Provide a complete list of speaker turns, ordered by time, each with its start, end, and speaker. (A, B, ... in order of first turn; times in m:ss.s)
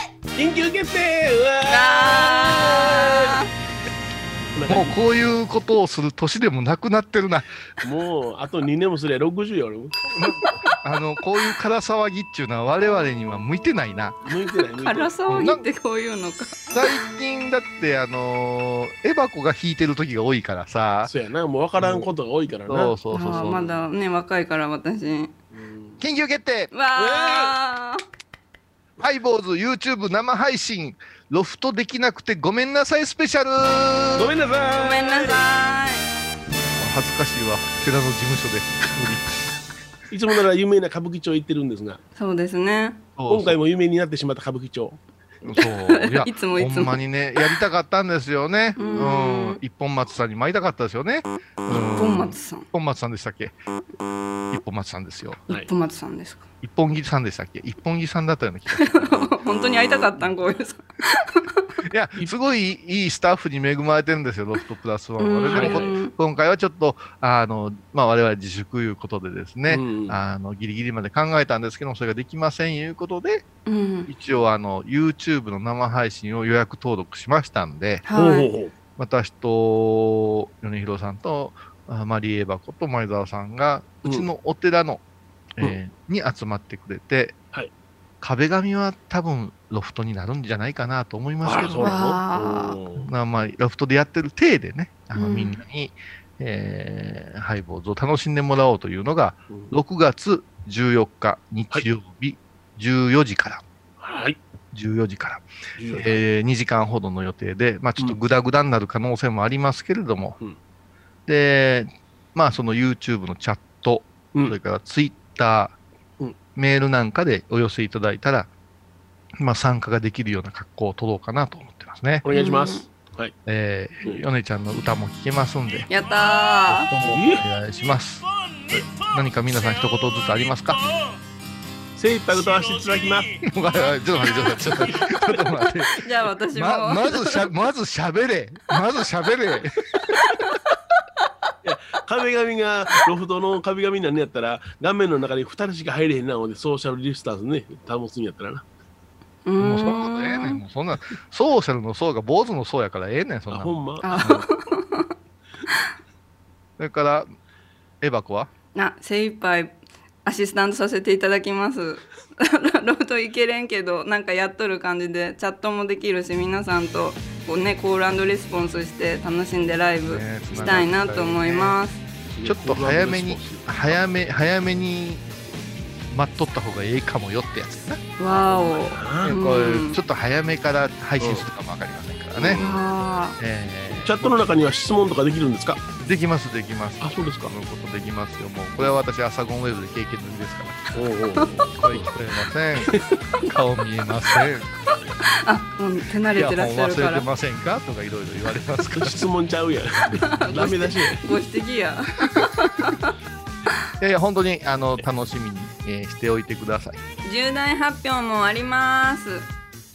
0:00.4-0:03.3 A
0:01.6-0:03.5 B
0:04.5-0:05.0 A
0:04.7-0:07.6 C
0:07.8-0:10.1 A
0:10.1-0:14.2 C
0:14.2-0:15.1 A
0:14.8-0:17.0 B
0:15.3-0:15.6 C
0:16.7-0:21.1 C
0:21.0-0:23.7 A
0:21.8-0:22.1 C
0:22.7-0:23.7 C
0:23.1-0:25.3 B
0:25.5-0:26.0 A
0:26.0-0:26.7 C
0:26.7-0:28.0 B
0:26.9-0:27.5 A
0:29.0-0:34.3 C
0:34.1-0:35.4 A
0:34.7-0:36.0 B
0:36.8-0:39.5 C
0:40.1-0:42.0 A
0:42.2-0:43.1 B
0:43.2-0:43.6 C
0:43.3-0:45.0 A
0:45.4-0:53.5 C
0:45.6-0:47.6 B
0:48.8-0:49.6 B
0:51.7-0:52.7 B
0:54.5-0:55.4 C
0:55.5-0:56.4 B
0:56.6-0:59.4 C
0:58.7-1:01.6 B
1:01.9-1:13.4 C
1:05.2-1:06.1 B
1:05.5-1:05.9 A
1:09.7-1:10.2 A
1:13.6-1:14.1 B
1:14.1-1:18.0 C
1:18.0-1:18.5 B
1:18.1-1:18.7 A
1:19.0-1:25.0 C
1:25.6-1:27.4 C
1:28.2-1:32.0 C
1:31.4-1:33.1 A
1:31.7-1:32.8 B
1:33.0-1:43.6 C
1:35.1-1:35.6 B
1:44.0-1:44.4 A
1:44.7-1:50.4 C
1:45.8-1:46.2 A
1:51.3-1:55.8 C
1:54.3-1:54.6 A
1:56.6-1:58.5 C
1:59.4-2:02.3 C
2:02.2-2:03.3 A
2:02.3-2:02.9 B
2:03.4-2:05.9 C
2:05.9-2:07.0 B
2:06.7-2:10.8 C
2:07.0-2:07.4 A
2:12.0-2:13.4 A
2:13.4-2:19.8 C
2:14.9-2:15.2 A
2:16.0-2:17.6 B
2:21.6-2:28.6 A
2:29.4-2:30.6 B
2:29.6-2:34.4 C
2:33.5-2:34.5 A
2:34.0-2:35.1 B
2:36.8-2:37.3 C
2:38.0-2:38.5 C
2:38.7-2:52.0 B
2:50.0-2:51.8 C
2:50.5-2:50.9 A
2:52.3-2:54.2 A
2:52.4-2:55.2 C
2:56.1-2:58.0 C
2:58.2-3:00.0 B
2:58.5-2:59.4 A
2:59.2-3:02.6 C
3:01.2-3:01.5 A
3:02.4-3:02.9 A
3:02.6-3:03.4 B
3:03.4-3:04.2 C
3:03.9-3:05.8 A
3:06.0-3:10.9 C
3:07.0-3:07.5 A
3:10.9-3:12.2 A
3:11.7-3:14.7 C
3:12.8-3:13.1 A
3:15.2-3:17.3 B
3:16.4-3:19.3 C
3:19.0-3:21.2 A
3:20.2-3:23.1 B
3:24.0-3:27.0 C
3:27.2-3:29.5 B